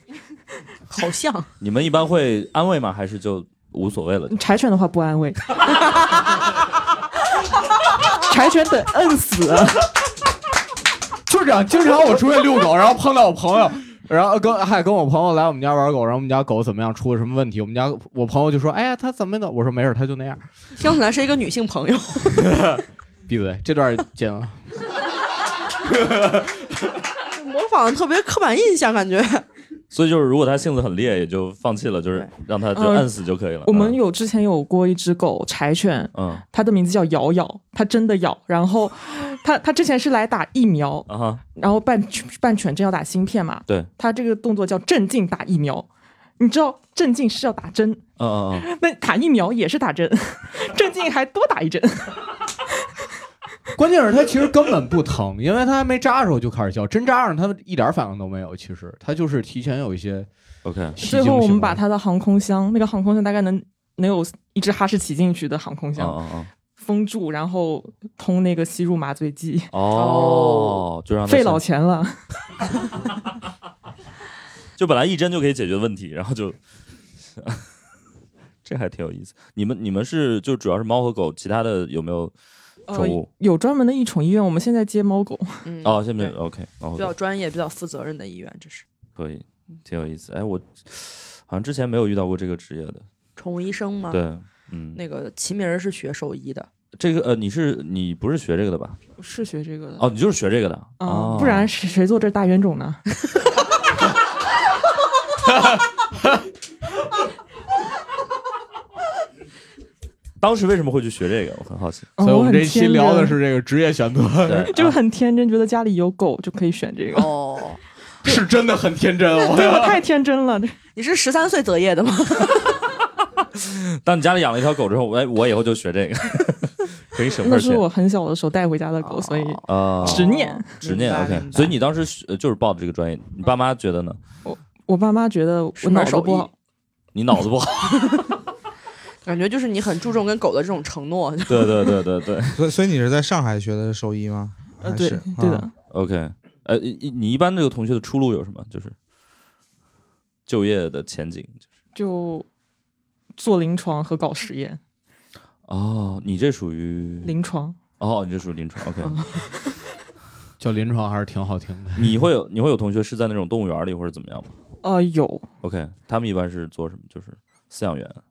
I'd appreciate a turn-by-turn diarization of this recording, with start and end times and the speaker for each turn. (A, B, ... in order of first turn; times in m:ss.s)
0:00.9-0:01.5 A
0:01.6-0:04.4 B
0:04.3-0:05.5 C
0:08.3-0:09.9 C
0:11.3-0:20.4 D
0:20.8-0:22.6 A
0:22.4-0:24.6 D
0:27.3-0:29.4 A
0:29.9-0:34.0 B
0:32.7-0:33.1 C
0:33.6-0:45.9 C
0:36.1-0:36.4 B
0:41.1-0:41.4 B
0:46.4-0:48.0 C
0:48.2-0:48.7 B
0:48.5-0:52.2 C
0:53.8-1:00.3 D
1:00.6-1:01.0 B
1:01.0-1:01.8 D
1:01.0-1:06.2 C
1:06.0-1:06.5 B
1:06.8-1:09.7 C
1:09.7-1:11.6 B
1:09.9-1:10.8 A
1:11.2-1:12.2 C
1:14.8-1:16.6 B
1:17.4-1:17.6 B
1:18.6-1:22.3 B
1:22.9-1:25.6 C
1:22.9-1:23.3 B
1:25.6-1:26.4 A
1:25.8-1:27.1 B
1:27.0-1:28.8 A
1:29.2-1:33.0 B
1:33.4-1:34.2 A
1:34.1-1:35.0 B
1:34.9-1:36.7 A
1:37.0-1:39.0 B
1:39.2-1:40.0 C
1:40.0-1:41.7 B
1:41.0-1:43.0 C
1:50.4-1:52.1 B
1:52.2-1:53.4 C
1:52.2-1:54.7 D
1:54.4-1:55.0 B
1:54.7-1:57.3 C
1:57.1-1:57.8 A
1:58.2-2:00.0 D
1:59.4-2:00.8 C
2:01.0-2:02.8 A
2:03.6-2:07.8 B
2:07.4-2:10.8 C
2:09.0-2:11.8 A
2:09.6-2:14.2 B
2:14.4-2:16.5 C
2:15.8-2:16.5 A
2:17.1-2:18.1 B
2:17.8-2:18.2 A
2:19.2-2:22.0 A
2:21.5-2:22.6 B
2:22.5-2:25.7 E
2:24.8-2:25.7 C
2:25.9-2:28.9 B
2:30.5-2:31.6 B
2:31.9-2:32.5 C
2:33.3-2:34.8 C
2:35.7-2:37.3 B
2:37.2-2:37.8 C
2:38.0-2:39.3 B
2:39.0-2:39.5 C
2:40.6-2:42.2 D
2:42.0-2:44.5 B
2:44.8-2:45.5 C
2:45.6-2:48.2 B